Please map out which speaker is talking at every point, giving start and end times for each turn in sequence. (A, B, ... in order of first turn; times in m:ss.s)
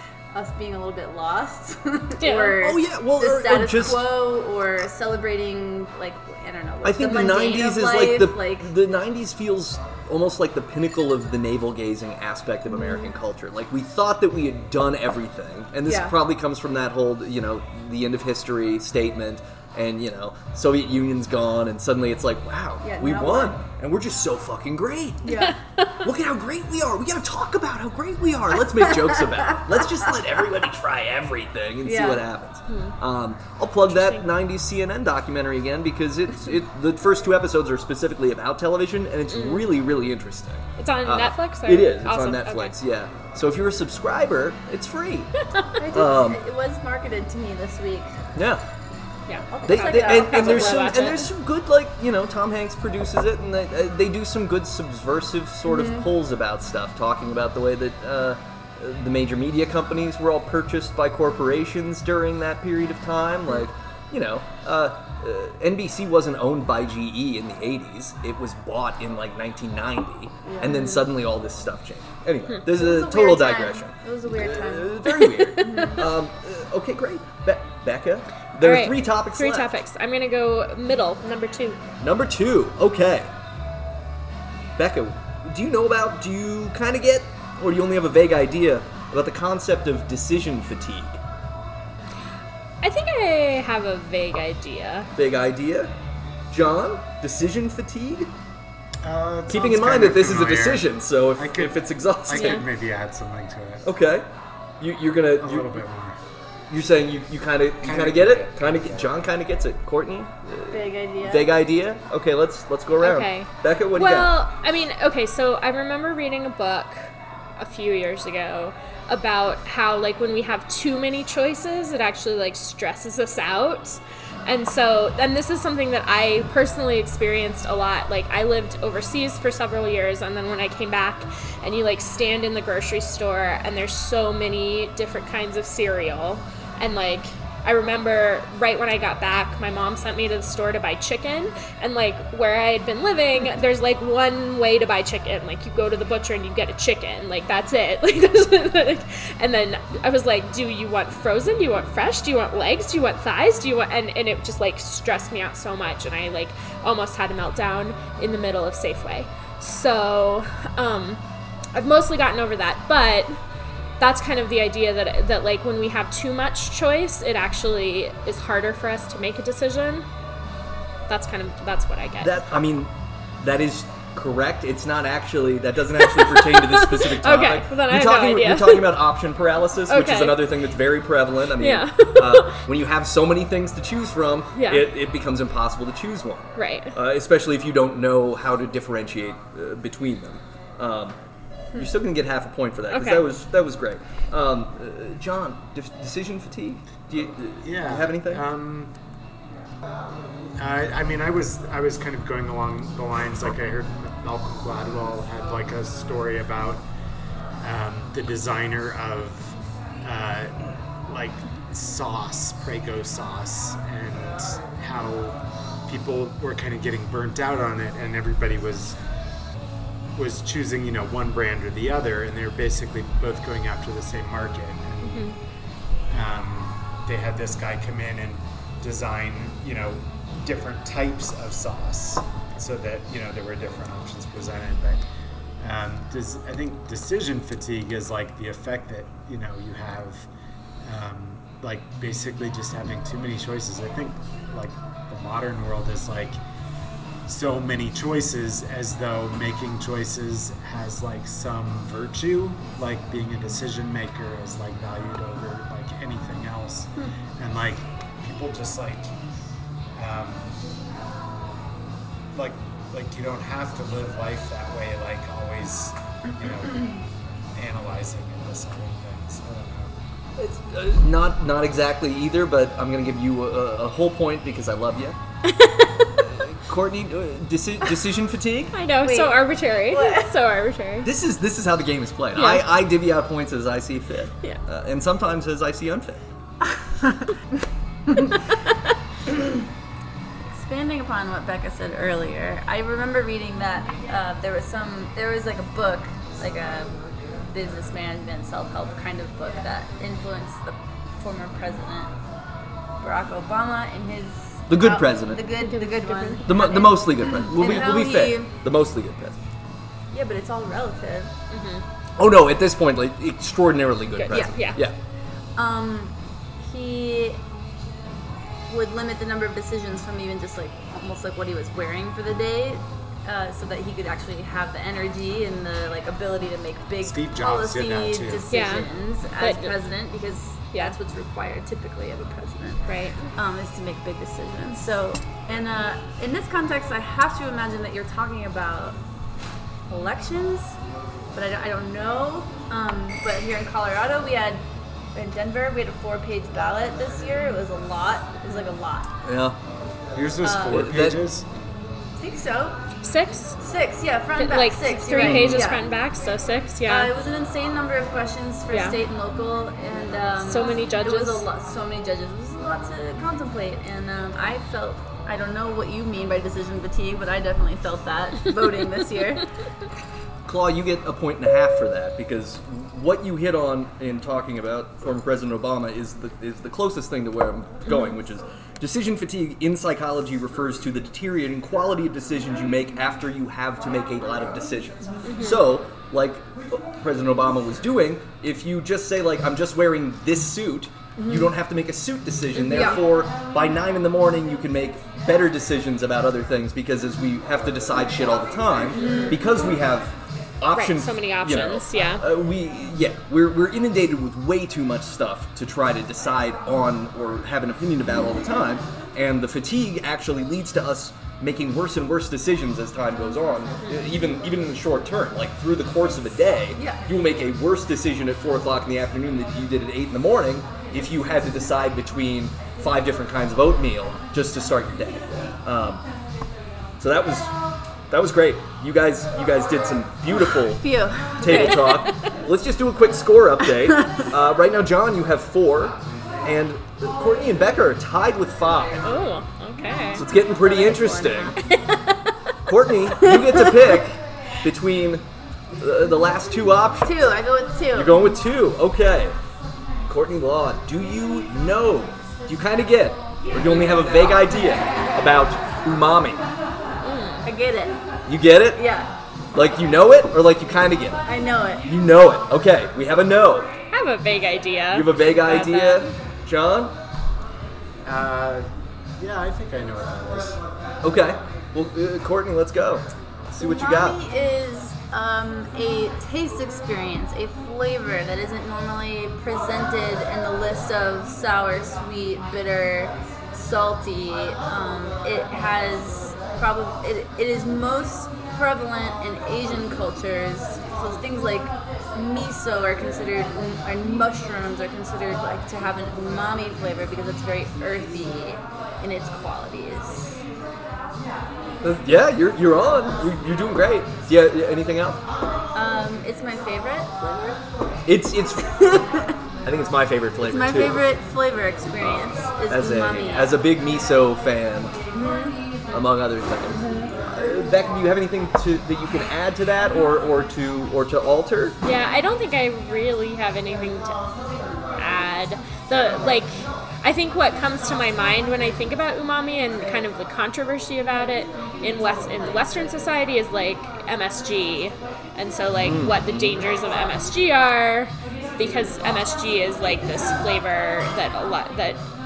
0:00.3-0:08.7 A
0:02.2-0:02.6 B
0:02.6-0:04.1 C
0:06.8-0:25.4 C
0:15.8-0:16.2 A
0:22.8-0:23.6 A
0:25.2-0:25.6 A
0:25.3-0:25.9 B
0:26.0-0:45.3 C
0:28.8-0:29.8 A
0:31.8-0:32.2 A
0:32.7-0:33.0 B
0:33.9-0:34.2 B
0:39.3-0:39.7 B
0:40.8-0:42.7 B
0:45.8-0:48.2 A
0:45.9-0:46.4 C
0:48.3-0:48.6 C
0:49.3-0:51.3 B
0:49.5-0:51.1 A
0:49.6-1:19.7 C
0:55.6-0:56.1 A
1:10.4-1:10.9 A
1:12.6-1:16.1 A
1:15.2-1:16.0 B
1:18.6-1:21.8 B
1:22.0-1:23.3 C
1:24.8-1:31.2 C
1:32.8-1:35.1 B
1:35.2-1:35.9 C
1:36.5-1:38.3 C
1:39.0-1:43.8 D
1:39.5-1:42.6 C
1:42.3-1:42.6 B
1:43.8-1:44.2 C
1:44.8-1:45.8 C
1:45.4-1:46.2 D
1:46.7-1:54.3 C
1:47.8-1:49.1 D
1:50.7-1:51.5 A
1:53.0-2:41.2 B
2:41.7-2:43.4 B
2:44.0-2:50.0 B
2:51.1-2:52.4 B
2:52.2-3:11.2 C
2:56.0-2:59.0 B
2:59.9-3:00.5 B
3:01.6-3:02.6 B
3:04.5-3:04.8 B
3:06.6-3:06.9 B
3:11.7-3:18.4 C
3:12.9-3:13.2 B
3:17.6-3:18.9 D
3:20.6-3:26.8 D
3:27.6-3:39.0 D
3:40.1-3:45.3 D
3:45.0-3:45.4 B
3:46.1-3:55.0 D
3:55.6-4:00.2 D
4:00.8-4:06.4 D
4:07.2-4:19.1 D
4:19.9-4:20.6 D
4:22.3-4:27.0 D
4:27.5-4:29.9 D
4:30.4-4:35.2 C
4:36.2-4:38.8 C
4:38.7-4:41.1 B
4:39.0-4:40.3 A
4:41.0-4:46.2 C
4:42.4-4:42.7 B
4:47.0-4:47.3 A
4:50.5-5:02.1 A
5:03.0-5:08.5 A
5:04.7-5:05.4 C
5:05.6-5:06.8 B
5:06.4-5:09.4 C
5:10.1-5:11.3 A
5:11.5-5:11.8 B
5:12.2-5:14.9 C
5:14.2-5:14.8 B
5:14.3-5:14.7 A
5:15.6-5:17.4 A
5:18.7-5:39.0 A
5:27.0-5:28.4 D
5:28.5-5:28.9 B
5:29.4-5:29.8 B
5:32.9-5:33.3 B
5:39.9-5:40.8 A
5:41.3-5:44.6 A
5:45.1-5:49.1 A
5:49.2-5:49.6 C
5:50.1-5:51.5 D
5:50.4-5:50.9 A
5:50.7-5:51.2 C
5:52.2-5:52.8 A
5:53.0-5:53.6 B
5:53.6-5:55.9 A
5:54.4-5:57.1 B
5:55.2-5:55.7 C
5:56.9-6:09.5 A
5:58.7-5:59.0 B
6:00.4-6:01.4 B
6:10.4-7:06.0 C
6:25.2-6:25.6 B
6:31.2-6:31.5 A
6:32.6-6:33.0 A
6:38.9-6:39.4 A
6:40.7-6:42.2 B
6:56.8-6:57.0 A
7:07.0-7:07.5 C
7:08.1-7:19.0 C
7:10.4-7:12.0 A
7:11.4-7:12.1 B
7:19.0-7:20.2 B
7:20.1-7:21.6 C
7:20.4-7:21.6 A
7:21.7-7:22.2 B
7:22.6-7:25.2 C
7:23.2-7:23.7 A
7:25.8-7:27.3 C
7:27.0-7:28.3 A
7:27.9-7:29.4 C
7:30.1-7:36.4 C
7:37.0-7:37.4 B
7:37.4-7:38.0 A
7:38.3-7:38.8 C
7:38.7-7:39.1 A
7:39.5-7:41.2 C
7:41.2-7:41.9 A
7:41.8-7:43.7 C
7:43.9-7:46.1 B
7:44.9-7:46.9 C
7:48.0-7:48.7 D
7:49.2-7:50.6 D
7:51.0-7:54.2 C
7:53.6-8:20.4 A
8:21.8-8:25.2 C
8:25.7-8:27.6 A
8:28.0-8:29.0 C
8:28.6-8:29.4 A
8:29.6-8:31.0 C
8:30.4-8:33.5 A
8:32.7-8:35.0 C
8:35.1-8:35.6 A
8:35.9-8:41.8 C
8:36.7-8:37.1 A
8:41.8-8:44.2 B
8:45.0-9:02.0 B
8:55.8-8:56.6 C